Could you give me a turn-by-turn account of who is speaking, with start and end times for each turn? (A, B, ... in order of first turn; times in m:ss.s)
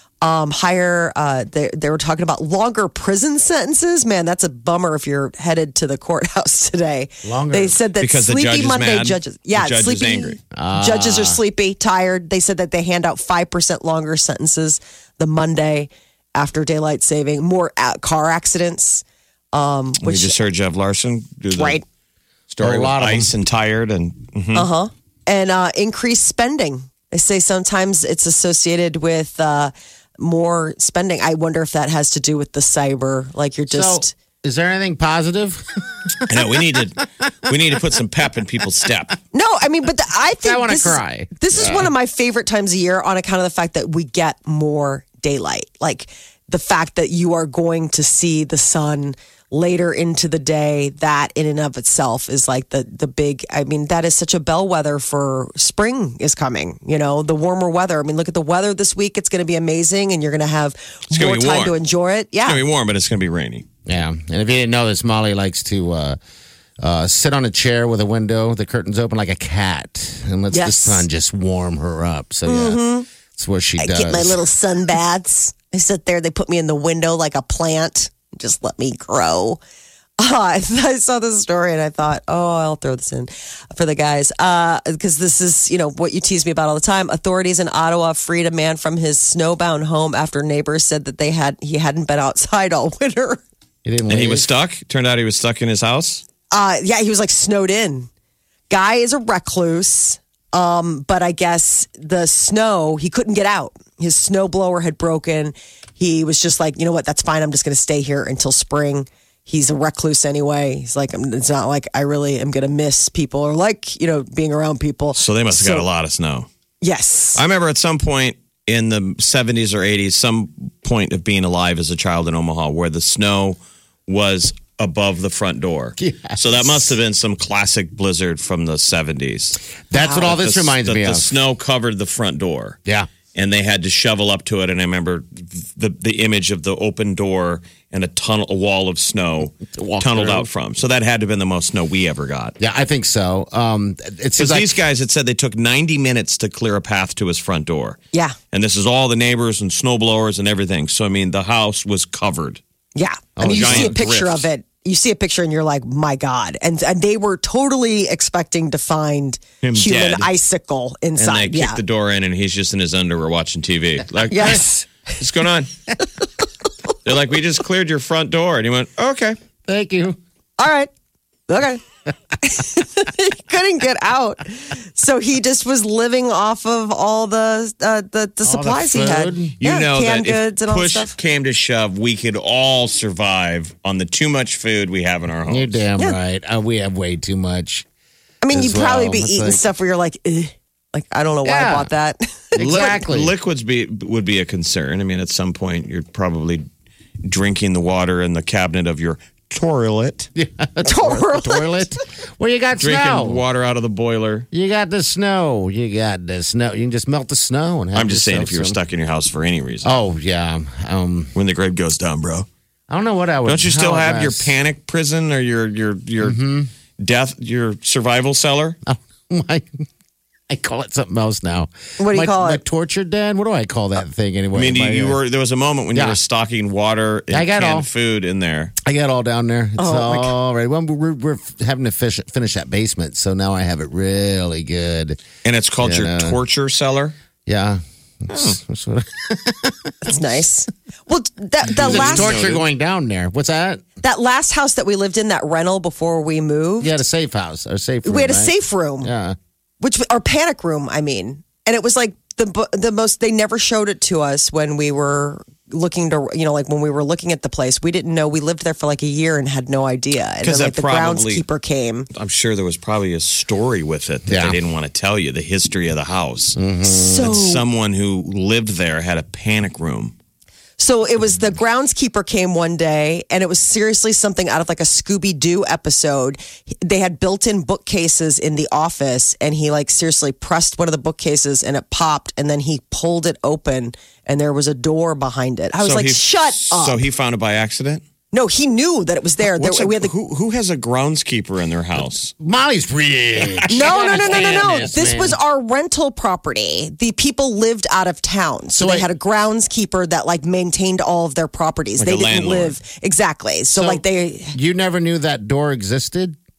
0:00.2-0:20.3 A
0:07.2-0:07.8 B
0:08.0-0:10.4 C
0:10.5-0:11.4 B
0:20.0-0:21.8 C
0:21.5-0:21.8 A
0:22.5-0:24.7 C
0:22.6-0:23.3 B
0:24.5-0:34.1 A
0:33.7-0:36.6 B
0:36.3-0:39.2 C
0:39.3-1:02.6 A
0:40.4-0:41.9 B
1:01.1-1:01.8 C
1:02.4-1:03.6 C
1:03.8-1:06.2 B
1:06.8-1:14.4 B
1:10.5-1:11.0 A
1:12.5-1:13.1 A
1:13.8-1:19.6 A
1:20.2-1:33.4 A
1:33.8-1:34.5 B
1:34.1-1:36.2 C
1:36.5-1:38.1 A
1:38.7-1:55.8 A
1:55.2-1:56.5 C
1:56.8-1:57.4 A
1:57.4-2:09.6 C
2:06.0-2:06.9 B
2:09.9-2:11.3 B
2:10.0-2:10.2 A
2:10.2-2:12.8 C
2:13.3-2:22.6 C
2:19.7-2:20.5 B
2:22.6-2:24.8 B
2:24.4-2:28.0 C
2:28.5-2:32.6 C
2:33.0-2:41.8 A
2:33.4-2:34.0 B
2:33.4-2:34.5 C
2:39.6-2:40.3 C
2:41.2-2:44.7 C
2:44.3-2:44.8 A
2:45.2-2:45.7 C
2:47.0-2:49.4 C
2:49.6-2:50.2 B
2:50.6-2:50.9 A
2:51.5-2:51.8 A
2:52.4-3:01.1 A
2:58.4-2:59.5 B
2:59.6-3:05.8 C
3:05.5-3:07.8 B
3:08.4-3:12.9 A
3:08.5-3:09.6 B
3:11.4-3:11.9 B
3:12.6-3:13.3 B
3:12.6-3:16.6 C
3:17.2-3:20.3 C
3:20.4-3:23.4 B
3:20.8-3:21.8 A
3:22.8-3:24.5 C
3:24.5-3:28.8 B
3:27.9-3:29.9 C
3:29.8-3:31.3 B
3:31.3-3:32.5 C
3:32.9-3:34.6 B
3:33.5-3:36.4 C
3:36.2-3:36.7 B
3:37.0-3:38.8 C
3:38.8-3:39.8 B
3:40.5-3:45.2 B
3:42.0-3:42.6 A
3:44.5-3:48.7 C
3:47.3-3:47.9 B
3:48.8-3:55.2 B
3:49.8-3:50.3 A
3:55.4-3:57.1 C
3:55.8-3:56.4 B
3:57.4-4:00.2 B
4:00.0-4:02.4 A
4:01.6-4:03.8 B
4:01.8-4:02.6 C
4:04.0-4:07.0 A
4:06.8-4:09.4 B
4:08.0-4:09.1 A
4:09.8-4:22.1 A
4:20.4-4:21.4 C
4:22.1-4:26.6 C
4:24.3-4:24.6 B
4:26.6-4:27.3 B
4:26.8-4:27.6 A
4:27.2-4:30.1 C
4:30.8-4:47.0 A
4:45.8-4:48.0 C
4:48.3-4:50.1 A
4:49.4-4:52.3 C
4:52.4-4:55.4 B
4:53.7-5:04.6 A
4:54.0-4:54.8 C
4:58.7-4:59.1 B
5:02.0-5:02.8 C
5:03.7-5:06.4 B